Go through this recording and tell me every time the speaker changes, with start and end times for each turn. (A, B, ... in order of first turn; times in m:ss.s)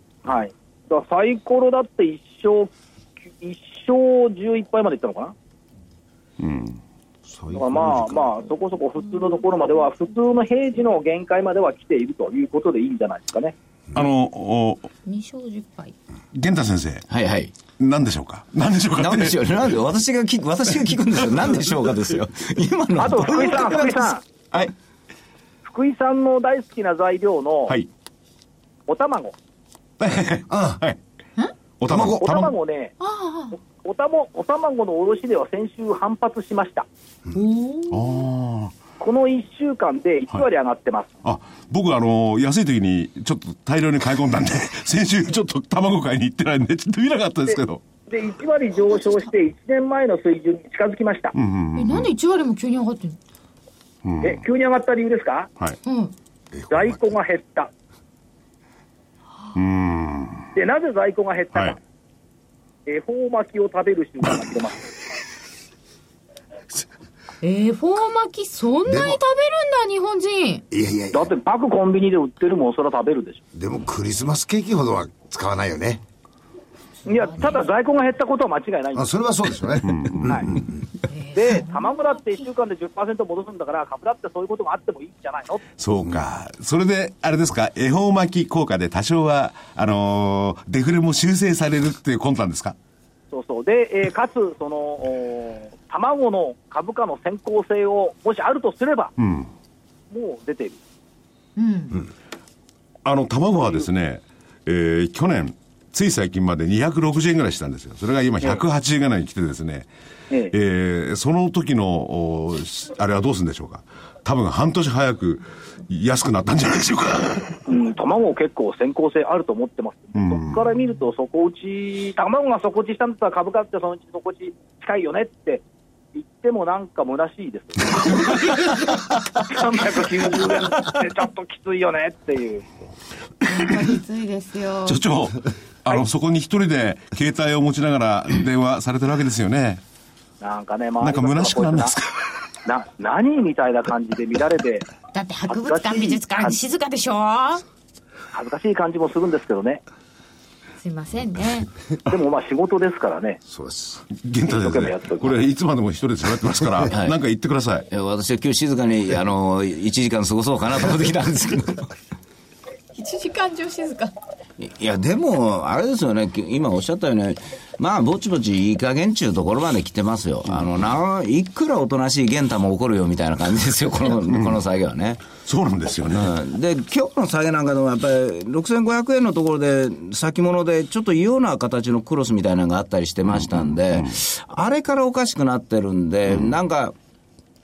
0:00.2-0:02.7 A
0:03.4-0:05.3 A
0:06.4-0:06.8 B
0:07.3-0:08.4 C
0:07.5-0:13.5 A
0:13.9-0:14.9 B
0:15.0-0:15.9 D
0:16.3-0:17.0 B
0:17.1-0:17.5 E
0:17.8-0:19.5 B
0:19.0-0:24.1 E
0:23.0-0:24.2 A
0:25.6-0:27.7 A
0:28.9-0:29.4 A
0:30.0-0:31.0 B
0:30.5-0:30.8 C
0:31.8-0:32.5 B
0:31.8-0:32.2 C
0:32.2-0:32.9 A
0:33.0-0:33.6 D
0:33.6-0:36.9 A
0:37.3-0:38.2 D
0:37.9-0:38.7 B
0:39.0-0:41.1 A
0:41.2-0:47.8 B
0:47.5-0:51.3 A
0:51.3-0:52.1 B
0:51.7-0:53.2 D
0:54.0-0:54.4 B
0:54.2-0:55.5 A
0:55.8-0:56.1 D
0:56.6-0:57.0 C
0:56.7-0:57.7 A
0:59.5-1:00.5 B
1:00.5-1:01.8 A
1:02.8-1:04.8 A
1:07.4-1:10.6 D
1:08.9-1:09.2 C
1:10.7-1:11.3 C
1:11.1-1:13.4 A
1:13.5-1:16.0 C
1:17.0-1:19.0 A
1:17.2-1:17.6 D
1:18.9-1:20.6 C
1:19.8-1:20.5 B
1:21.1-1:22.4 D
1:21.3-1:25.6 A
1:25.8-1:32.8 B
1:33.3-1:39.1 A
1:39.2-1:39.5 B
1:40.1-1:40.8 A
1:41.6-1:42.0 D
1:43.0-1:49.9 B
1:43.6-1:43.9 A
1:50.5-1:57.6 B
1:57.7-2:05.6 A
2:00.2-2:00.6 B
2:06.1-2:12.6 A
2:08.0-2:08.6 B
2:13.4-2:15.0 D
2:14.8-2:19.8 B
2:20.4-2:22.0 A
2:21.0-2:22.2 B
2:22.6-2:24.9 A
2:25.1-2:27.6 D
2:25.5-2:26.6 A
2:28.3-2:29.8 A
2:30.8-2:31.7 D
2:32.1-2:33.4 A
2:33.5-2:34.0 C
2:34.1-2:37.9 B
2:34.4-2:35.4 A
2:36.9-2:37.1 E
2:37.9-2:41.9 E
2:42.9-2:44.1 D
2:44.6-2:55.3 E
2:54.3-2:54.6 B
2:55.3-2:56.3 B
2:56.1-3:06.9 E
3:03.4-3:04.1 B